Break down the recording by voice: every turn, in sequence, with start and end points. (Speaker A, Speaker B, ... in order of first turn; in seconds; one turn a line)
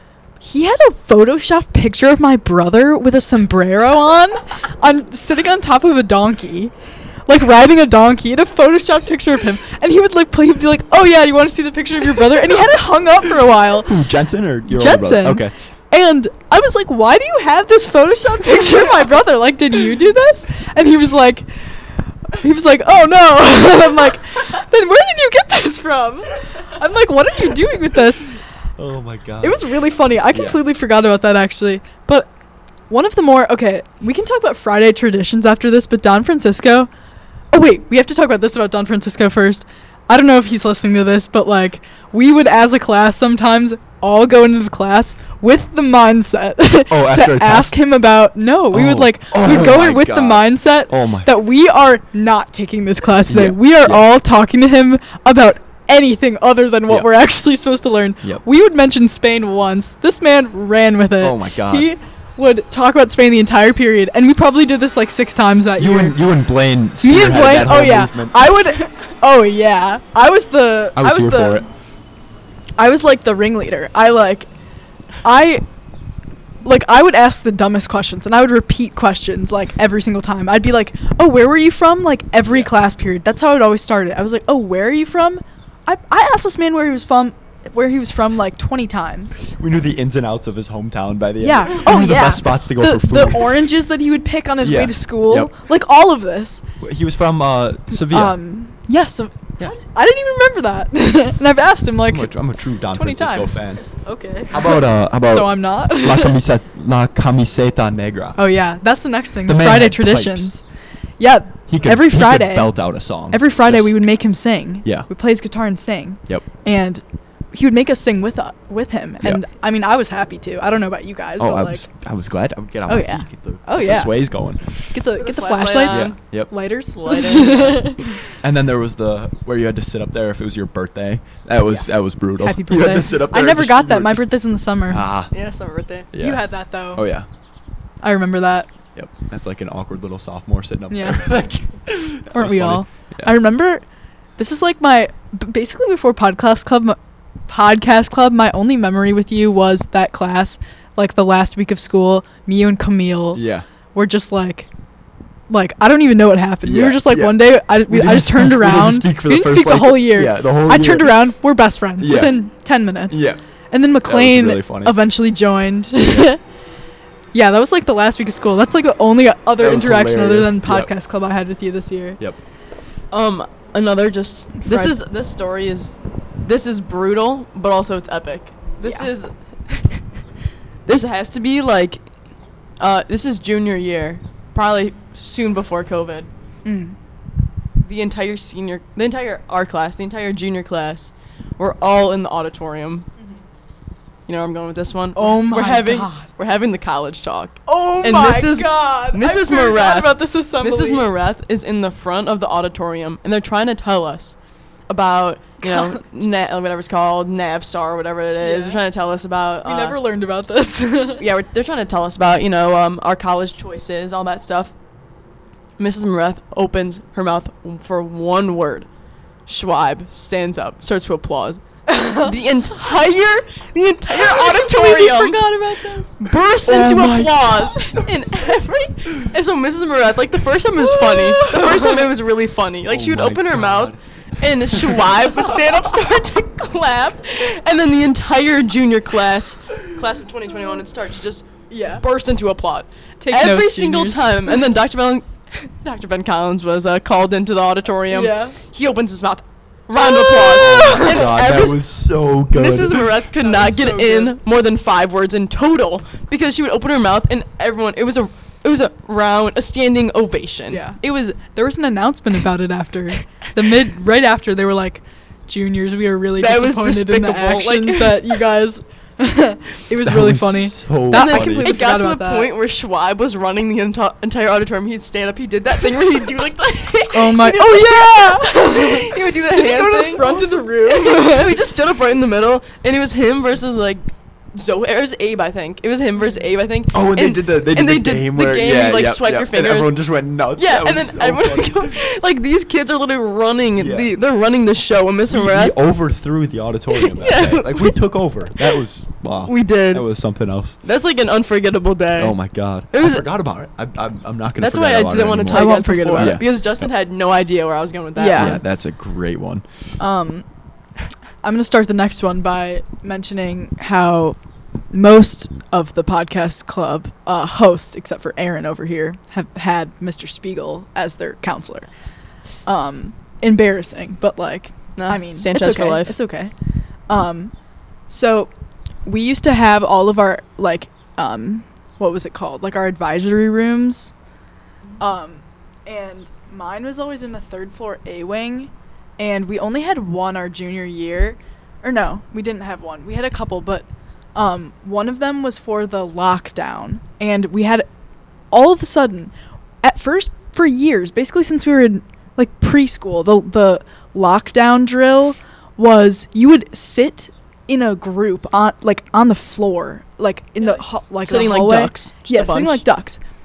Speaker A: 0.4-6.7
Speaker A: 7.3-14.0
Speaker B: 13.9-15.5
Speaker A: 14.7-28.4
Speaker B: 28.8-29.7
Speaker A: 29.4-32.3
Speaker B: 30.3-30.6
Speaker A: 32.9-36.9
Speaker A: 37.5-66.2
Speaker B: 46.9-47.8
Speaker B: 48.7-51.3
Speaker B: 53.3-54.1
Speaker B: 61.2-61.9
Speaker B: 65.8-68.5
Speaker A: 67.0-71.6
Speaker B: 71.0-71.7
Speaker A: 72.8-74.5
Speaker A: 75.2-75.6
Speaker A: 76.6-89.4
Speaker B: 82.4-82.7
Speaker B: 89.5-93.7
Speaker A: 91.4-96.6
Speaker B: 94.6-95.5
Speaker B: 96.8-98.4
Speaker A: 98.0-102.3
Speaker B: 102.1-103.8
Speaker A: 102.9-106.4
Speaker B: 104.5-108.4
Speaker A: 108.3-110.6
Speaker B: 109.5-110.5
Speaker A: 111.2-112.8
Speaker B: 111.7-113.9
Speaker A: 113.3-121.9
Speaker B: 121.4-125.0
Speaker A: 122.9-124.2
Speaker A: 124.9-128.2
Speaker C: 125.2-126.2
Speaker B: 125.9-126.5
Speaker C: 126.9-128.2
Speaker B: 128.4-134.2
Speaker A: 132.4-135.1
Speaker B: 134.9-135.3
Speaker C: 135.3-136.1
Speaker B: 136.1-136.4
Speaker A: 136.2-137.0
Speaker B: 136.9-137.2
Speaker A: 138.0-138.7
Speaker B: 138.9-143.3
Speaker A: 140.9-141.3
Speaker A: 142.3-143.8
Speaker A: 144.4-147.0
Speaker A: 147.5-153.4
Speaker B: 153.3-153.7
Speaker A: 153.9-154.7
Speaker A: 155.5-166.4
Speaker B: 156.6-161.2
Speaker B: 162.0-162.4
Speaker B: 163.1-163.4
Speaker B: 164.0-165.0
Speaker B: 166.0-166.3
Speaker A: 167.3-172.2
Speaker B: 169.6-170.9
Speaker C: 173.1-180.0
Speaker A: 174.6-174.9
Speaker C: 180.8-182.0
Speaker C: 182.8-186.3
Speaker A: 186.6-186.9
Speaker C: 187.8-193.1
Speaker C: 194.3-204.3
Speaker A: 195.1-196.3
Speaker A: 197.7-201.1
Speaker C: 204.9-210.0
Speaker A: 205.6-206.0
Speaker A: 208.4-208.8
Speaker A: 209.6-211.2
Speaker C: 211.2-214.7
Speaker C: 215.8-218.9
Speaker C: 219.5-225.4
Speaker A: 221.9-222.3
Speaker A: 224.2-226.2
Speaker C: 226.2-251.8
Speaker B: 226.6-227.9
Speaker A: 230.9-232.0
Speaker B: 232.9-234.0
Speaker B: 234.6-235.1
Speaker A: 241.7-242.0
Speaker A: 243.2-244.6
Speaker A: 248.1-248.6
Speaker B: 250.3-253.1
Speaker A: 250.5-251.2
Speaker C: 252.5-261.1
Speaker A: 253.4-254.3
Speaker A: 260.7-272.5
Speaker C: 266.4-268.4
Speaker B: 270.0-271.8
Speaker C: 271.1-290.0
Speaker A: 277.1-281.6
Speaker B: 286.9-292.0
Speaker C: 290.6-295.7
Speaker B: 293.8-294.1
Speaker B: 295.3-300.8
Speaker C: 296.9-298.0
Speaker C: 299.4-300.1
Speaker C: 300.8-302.4
Speaker B: 302.2-306.4
Speaker C: 302.9-303.3
Speaker C: 304.6-308.6
Speaker A: 305.5-306.4
Speaker A: 308.1-308.6
Speaker B: 308.3-309.6
Speaker A: 310.0-310.4
Speaker A: 311.4-314.4
Speaker A: 314.9-321.9
Speaker A: 322.6-326.5
Speaker C: 325.0-326.2
Speaker A: 327.1-327.5
Speaker A: 328.1-328.5
Speaker A: 329.0-334.1
Speaker A: 335.0-347.9
Speaker A: 348.5-349.3
Speaker A: 349.8-363.2
Speaker C: 360.6-362.8